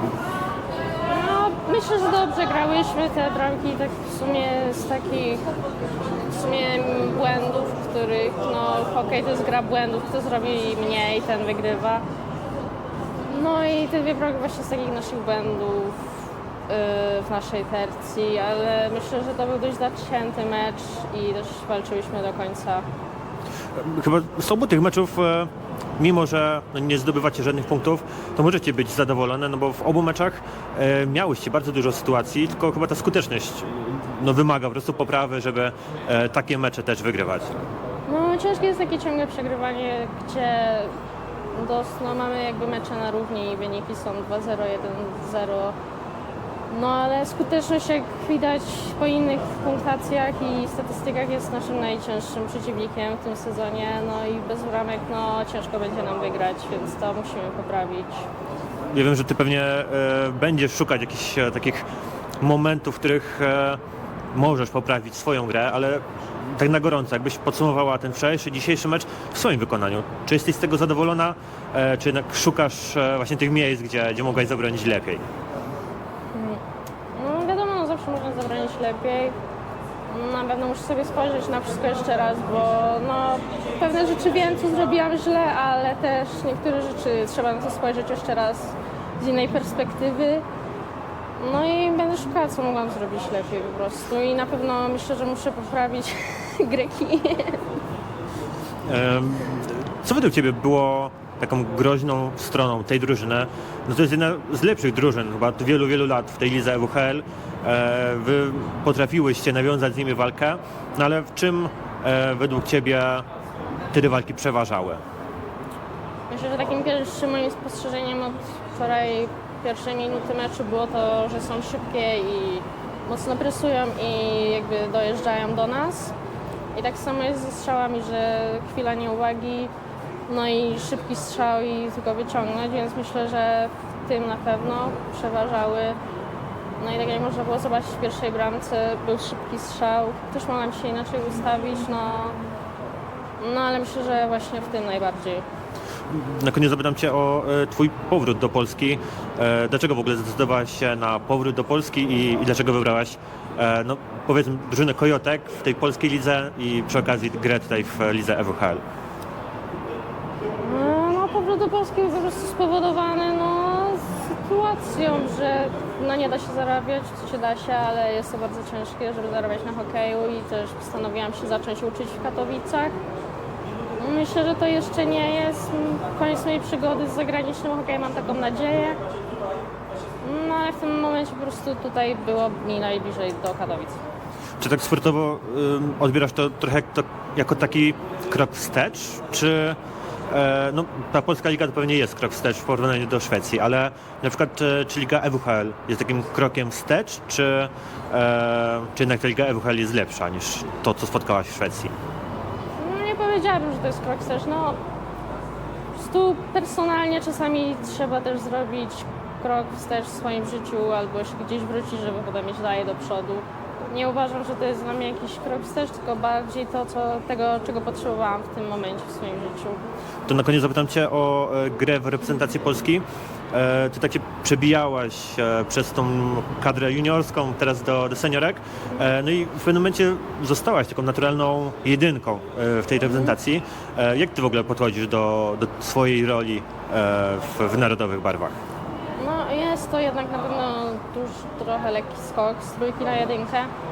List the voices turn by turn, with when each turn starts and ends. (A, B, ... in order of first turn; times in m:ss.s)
0:01.1-0:05.5 A
0:06.3-0:12.0 A
0:13.3-0:16.0 A
0:16.7-0:22.9 A
0:23.8-0:37.6 B
0:38.1-0:40.9 A
0:41.5-0:45.8 A
0:46.7-0:58.3 A
0:58.9-1:01.8 B
1:02.4-1:03.8 B
1:04.3-1:15.2 B
1:16.3-1:16.6 A
1:17.2-1:19.3 A
1:20.1-1:30.4 A
1:31.4-1:37.7 A
1:38.9-1:53.2 B
1:53.9-1:55.0 B
1:56.3-2:06.1 A
2:06.7-2:09.7 A
2:10.3-2:16.0 A
2:16.8-2:22.4 A
2:23.4-2:25.4 A
2:26.1-2:38.8 B
2:40.6-2:53.0 A
2:54.0-2:59.0 A
3:00.2-3:04.0 A
3:04.6-3:09.8 B
3:10.3-3:21.9 B
3:22.8-3:24.8 A
3:26.0-3:39.8 A
3:40.3-3:58.6 B
3:59.2-4:03.7 A